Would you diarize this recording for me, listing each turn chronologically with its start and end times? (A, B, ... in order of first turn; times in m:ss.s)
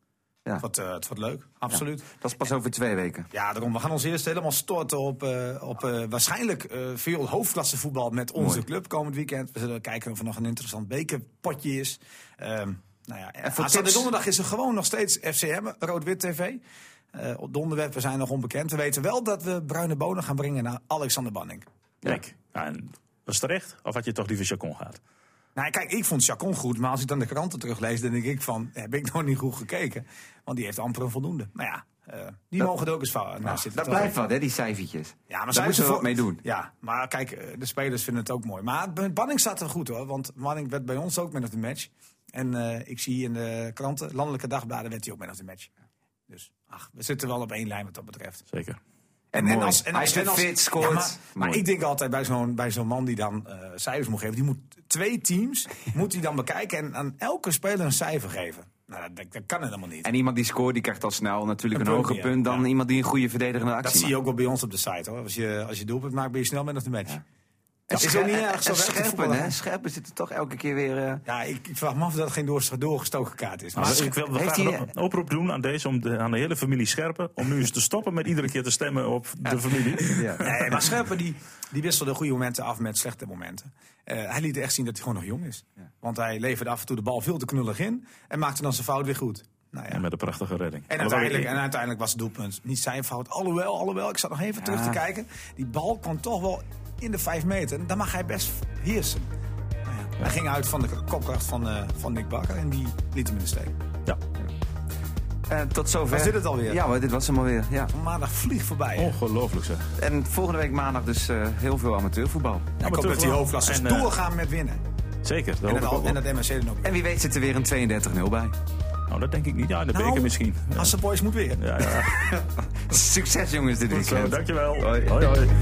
0:00.6-0:02.1 A
0:01.7-0:03.3 B
0:03.3-0:16.6 A
0:08.4-0:08.6 B
0:13.4-0:14.1 B
0:17.1-0:21.7 A
0:22.0-0:25.0 C
0:25.6-0:34.2 A
0:33.4-0:36.4 B
0:35.3-0:45.7 A
0:46.3-0:48.4 A
0:48.5-0:48.8 C
0:49.3-0:51.7 B
0:49.4-1:00.1 A
1:00.0-1:04.2 B
1:01.7-1:02.7 A
1:03.8-1:07.2 A
1:07.9-1:11.2 B
1:07.9-1:09.6 A
1:11.3-1:14.2 A
1:13.8-1:20.9 C
1:13.8-1:14.9 B
1:19.5-1:20.5 B
1:20.4-1:30.0 A
1:29.9-1:31.6 C
1:30.9-1:39.3 A
1:34.6-1:35.0 B
1:39.9-1:43.7 A
1:45.5-1:47.9 B
1:46.1-1:46.8 A
1:47.9-1:49.2 A
1:49.0-1:49.9 C
1:50.0-1:52.7 B
1:52.8-1:54.8 A
1:52.8-1:54.2 C
1:55.2-1:56.2 C
1:55.6-1:56.9 A
1:56.8-1:58.5 B
1:59.1-2:01.0 C
1:59.9-2:02.4 A
2:01.6-2:02.2 C
2:02.9-2:05.2 B
2:03.9-2:05.5 C